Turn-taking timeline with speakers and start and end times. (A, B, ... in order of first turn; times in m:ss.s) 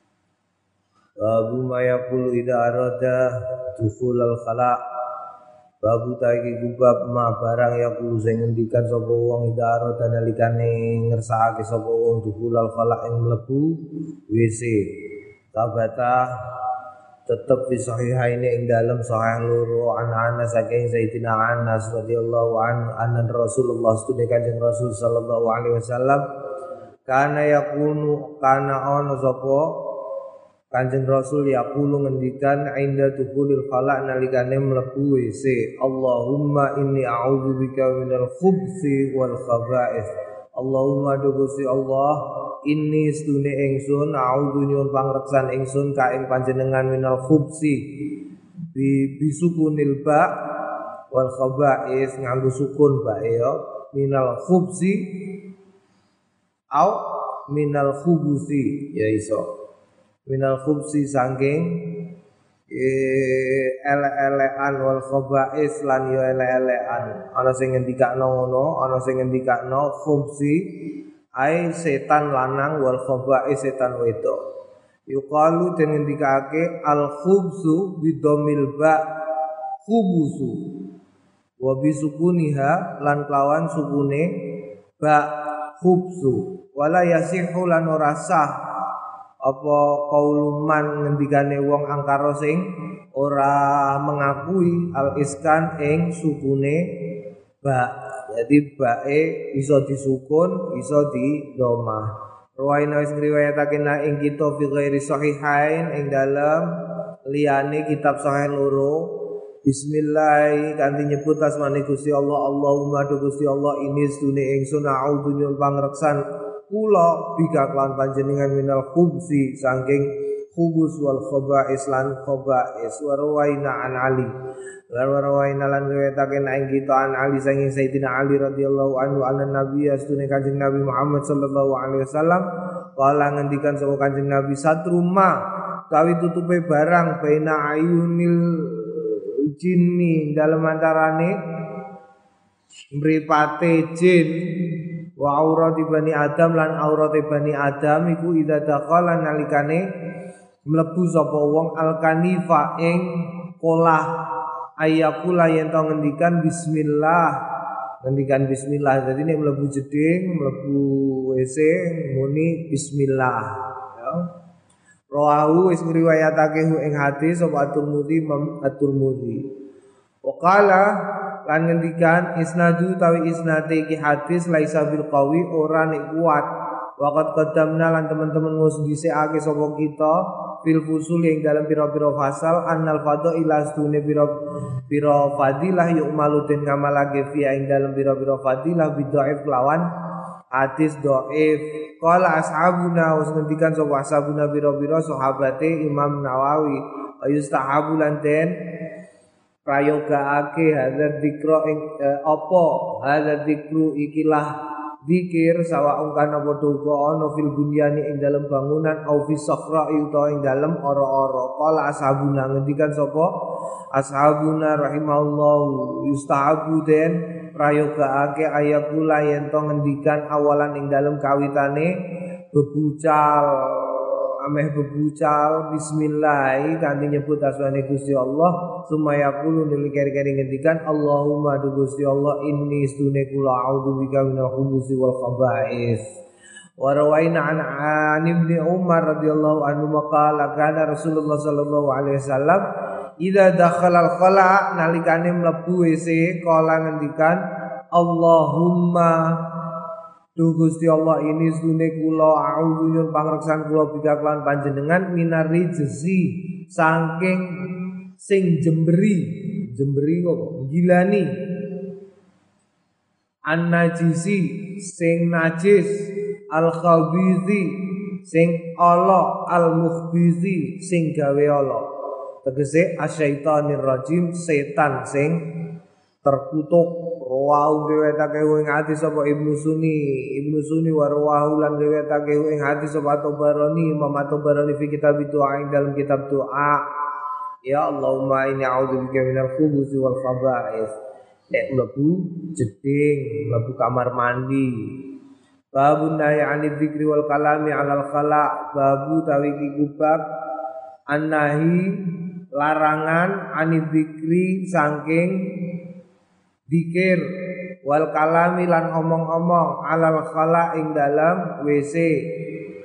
0:01.2-0:03.2 A
0:03.7-0:04.8 A
0:05.8-0:13.7 A
0:14.3-0:14.8 A
0:15.5-0:16.2 A
0:17.3-0:26.2 A
0:27.1-0:29.6 A
0:30.7-0:47.8 A
0:48.7-0:50.3 A
0:51.1-0:55.0 A
0:57.5-0:59.4 A
1:00.3-1:01.6 A
1:02.7-1:10.6 A
1:11.4-1:14.4 A
1:15.1-1:19.0 A
1:19.8-1:20.6 A
1:21.6-1:24.2 A
1:25.0-1:25.2 A
1:25.8-1:28.5 A
1:29.4-1:32.6 A
1:33.2-1:36.8 A
1:37.6-1:42.0 A
1:42.6-1:46.6 A
1:47.3-1:49.0 A
1:49.6-2:04.3 A
2:04.9-2:12.4 A
2:13.0-2:15.3 A
2:15.9-2:21.3 A
2:23.0-2:24.3 A
2:25.2-2:29.8 A
2:30.7-2:33.0 A
2:33.6-2:34.0 A
2:34.8-2:37.3 A
2:38.0-2:43.4 A
2:44.0-2:44.2 A
2:45.1-2:49.4 A
2:50.2-2:50.8 A
2:51.4-2:56.4 A
2:57.0-3:04.3 A
3:04.9-3:09.8 A
3:10.5-3:18.5 A
3:19.6-3:24.5 A
3:25.0-3:33.3 A
3:33.9-3:41.9 A
3:42.5-3:56.0 A
3:56.8-4:02.6 A
4:03.2-4:07.4 A
4:07.9-4:09.2 A
4:10.4-4:17.4 A
4:18.2-4:21.3 A
4:23.5-4:25.9 A
4:26.5-4:27.7 A
4:28.2-4:31.8 A
4:32.4-4:35.4 A
4:36.2-4:46.8 A
4:47.7-4:50.9 A
4:51.5-4:54.7 A
4:55.7-5:00.2 A
5:01.1-5:01.8 A
5:02.6-5:05.3 A
5:06.7-5:07.2 A
5:07.8-5:12.1 A